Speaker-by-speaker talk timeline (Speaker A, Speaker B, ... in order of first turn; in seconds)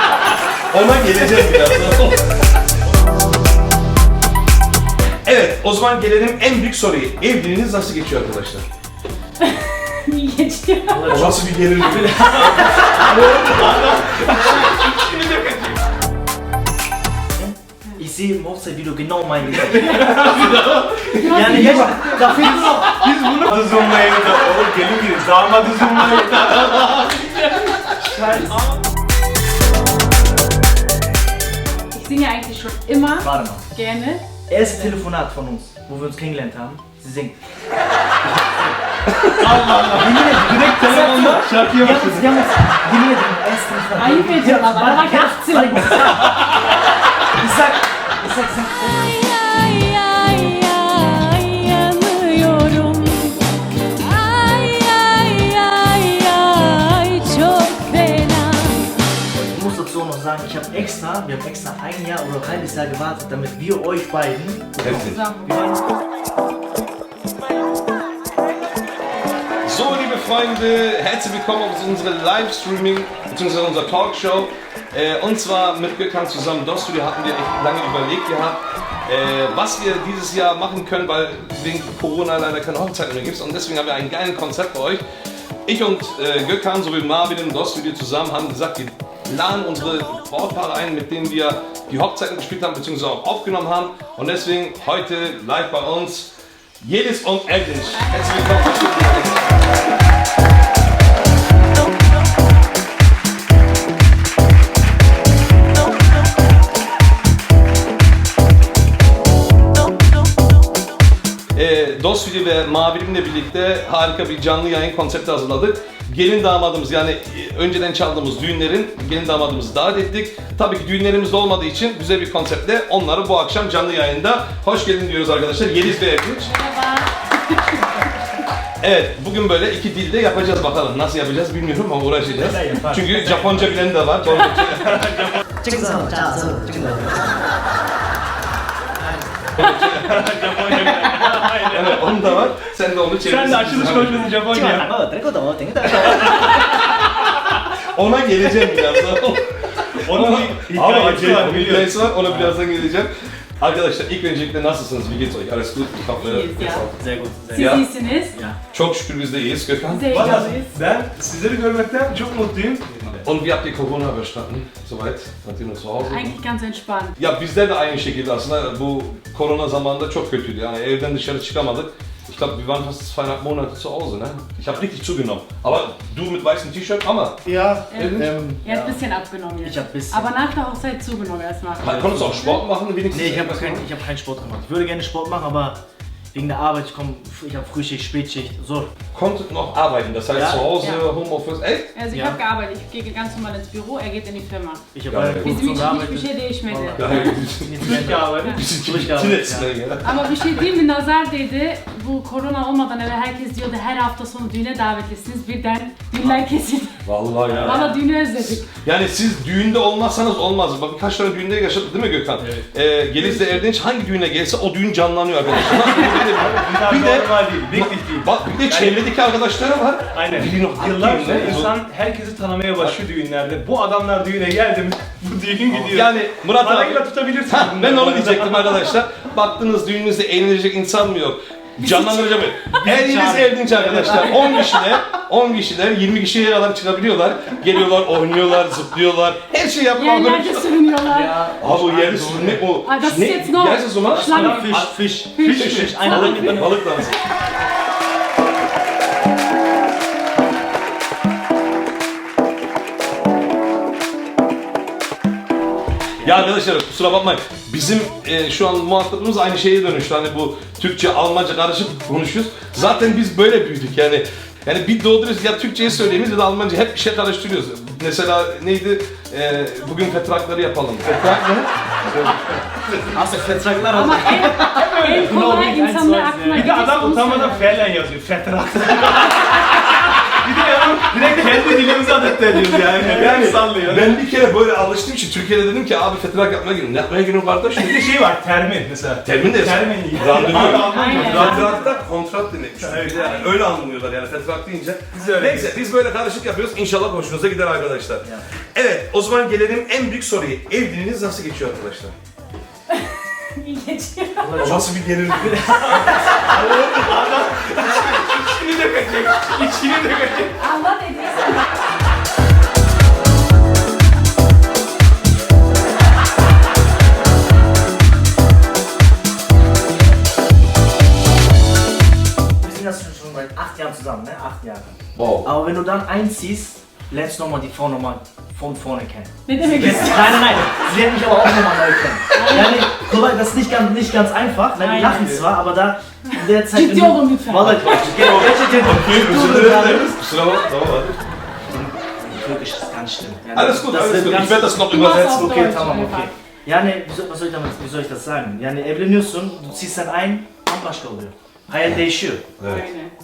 Speaker A: 0.7-2.3, 5.2-8.7, 11.1-13.5, 64.8-65.2, 69.7-85.0, 85.7-99.5, 111.5-126.5, 128.8-135.0, 139.6-140.2, 141.6-144.5, 147.9-156.9, 157.5-157.9, 158.7-160.5, 163.2-166.4, 167.2-177.4, 177.9-178.4, 181.8-183.8, 189.1-192.0, 195.1-195.8, 197.0-200.2, 207.1-221.7, 225.7-240.9, 241.6-247.2, 256.2-272.4, 283.0-288.1, 289.2-302.1, 304.6-306.3, 325.2-325.5, 335.0-335.4, 337.6-341.2, 343.6-345.7, 352.6-352.9
Speaker B: 10.1-11.1, 21.2-22.6, 31.9-34.9, 44.0-46.1, 48.7-53.4, 54.0-58.9, 65.0-65.5, 126.5-127.8, 156.2-156.8, 157.5-158.3, 159.9-160.7, 166.0-167.2, 177.9-182.6, 190.8-191.1, 191.9-194.8, 195.4-197.3, 200.0-207.0, 207.6-208.7, 231.9-232.4, 240.0-241.4, 242.8-246.6, 273.9-277.8, 290.6-291.9, 303.6-304.7, 310.6-311.7, 329.5-330.7, 332.3-332.9, 334.8-335.3, 336.7-337.8, 344.9-346.3, 352.7-353.1
Speaker C: 10.9-13.1, 17.4-20.5, 21.2-22.9, 28.0-28.6, 33.2-33.7, 34.5-37.4, 38.2-38.8, 39.8-46.7, 47.3-49.1, 59.4-65.8, 132.3-134.3, 135.6-137.3, 144.5-146.7, 152.2-152.6, 156.9-158.6, 177.4-179.0, 179.6-180.3, 181.8-182.6, 183.1-185.8, 186.3-188.9, 190.3-190.8, 192.1-192.4, 194.9-199.8, 207.5-207.9, 232.9-234.3, 241.1-242.6, 244.1-247.0, 273.1-276.7, 304.4-306.5, 322.6-340.2, 341.7-352.5
Speaker D: 12.2-15.8, 19.5-27.7, 39.4-42.4, 134.8-135.4, 139.8-142.4, 143.2-144.9, 150.0-152.1, 160.1-163.2, 197.8-198.6, 212.4-212.7, 215.8-219.1, 220.1-228.9, 232.8-234.3, 244.2-244.7, 245.5-245.9, 271.1-271.5, 274.4-284.2, 287.7-291.9, 292.8-293.4, 295.1-295.8, 305.9-310.6